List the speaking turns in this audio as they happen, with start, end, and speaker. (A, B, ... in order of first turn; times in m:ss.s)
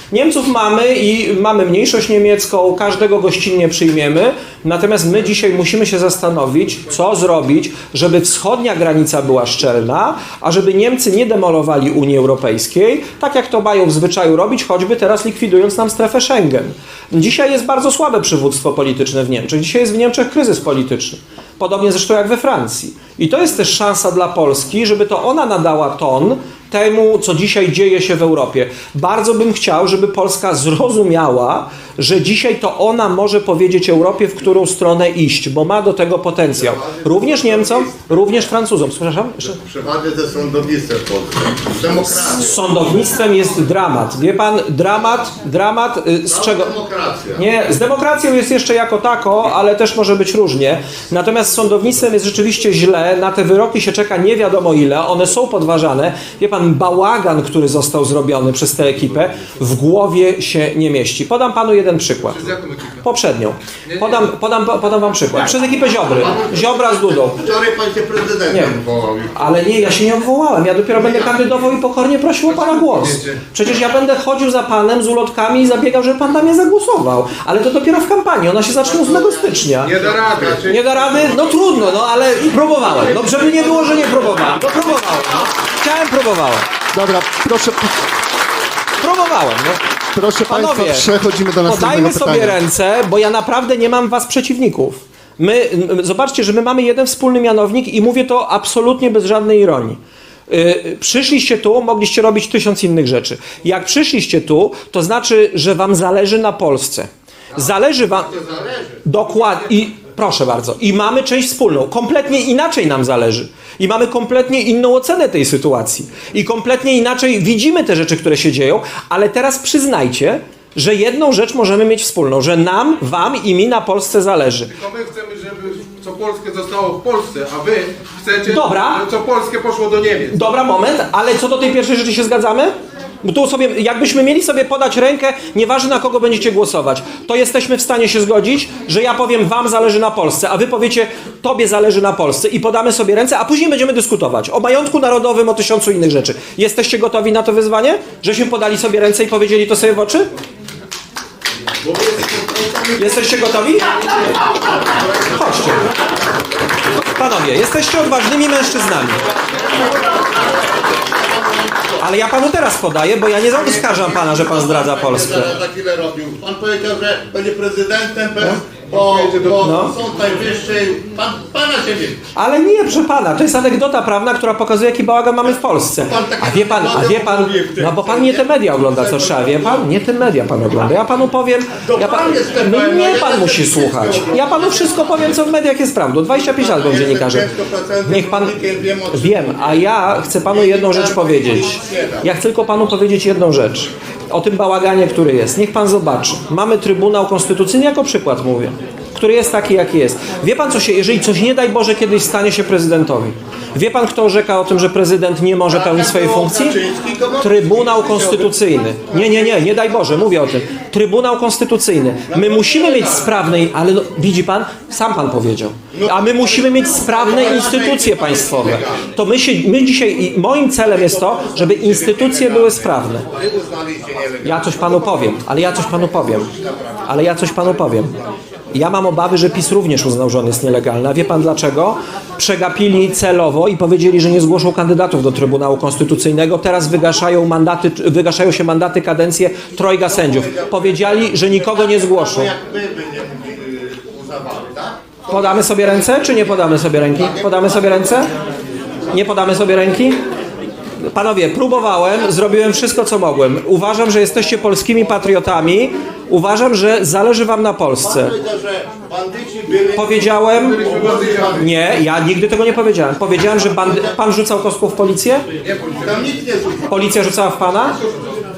0:00.1-0:39.6 A
0:36.5-0:38.1 B
0:39.6-0:42.6 B
0:42.3-0:46.7 A
0:46.3-0:47.4 B
0:47.3-1:02.5 A
1:02.3-1:03.0 C
1:03.0-1:07.4 A
1:03.8-1:04.3 C
1:06.1-1:09.5 B
1:08.5-1:08.7 A
1:09.3-1:19.9 A
1:10.9-1:11.4 B
1:12.5-1:13.4 C
1:18.8-1:21.3 B
1:19.8-1:21.0 C
1:20.6-1:26.6 A
1:23.2-1:23.6 B
1:24.4-1:25.0 B
1:26.9-1:28.0 D
1:29.0-1:29.8 A
1:30.1-1:32.6 D
1:30.4-1:48.4 A
1:47.5-1:49.0 B
1:49.0-2:04.7 A
2:04.7-2:10.5 C
2:08.4-2:09.0 A
2:10.3-2:30.3 A
2:31.8-2:33.4 B
2:32.9-2:34.1 A
2:34.8-2:35.9 B
2:35.2-2:35.9 A
2:36.9-2:39.2 A
2:39.3-2:42.0 B
2:42.0-2:45.6 A
2:43.5-2:52.2 B
2:48.9-2:49.7 C
2:49.6-2:49.9 A
2:52.3-3:07.5 A
2:55.4-2:59.9 B
3:01.8-3:05.4 B
3:06.5-3:09.9 B
3:08.0-3:08.6 A
3:09.1-3:26.8 A
3:10.5-3:12.3 B
3:25.7-3:28.6 B
3:27.4-3:43.3 A
3:29.1-3:30.1 B
3:32.3-3:33.4 B
3:35.9-3:39.1 B
3:40.8-3:48.4 B
3:44.4-3:46.5 A
3:47.0-3:48.1 A
3:48.7-4:02.5 A
4:00.0-4:08.4 B
4:05.3-4:08.3 A
4:09.1-4:10.2 A
4:11.1-4:18.3 A
4:18.0-4:21.7 B
4:19.9-4:20.9 A
4:20.5-4:21.6 C
4:21.5-4:25.4 A
4:23.6-4:24.1 B
4:25.6-4:26.3 C
4:26.0-4:27.2 B
4:26.9-4:28.0 A
4:28.0-4:28.4 C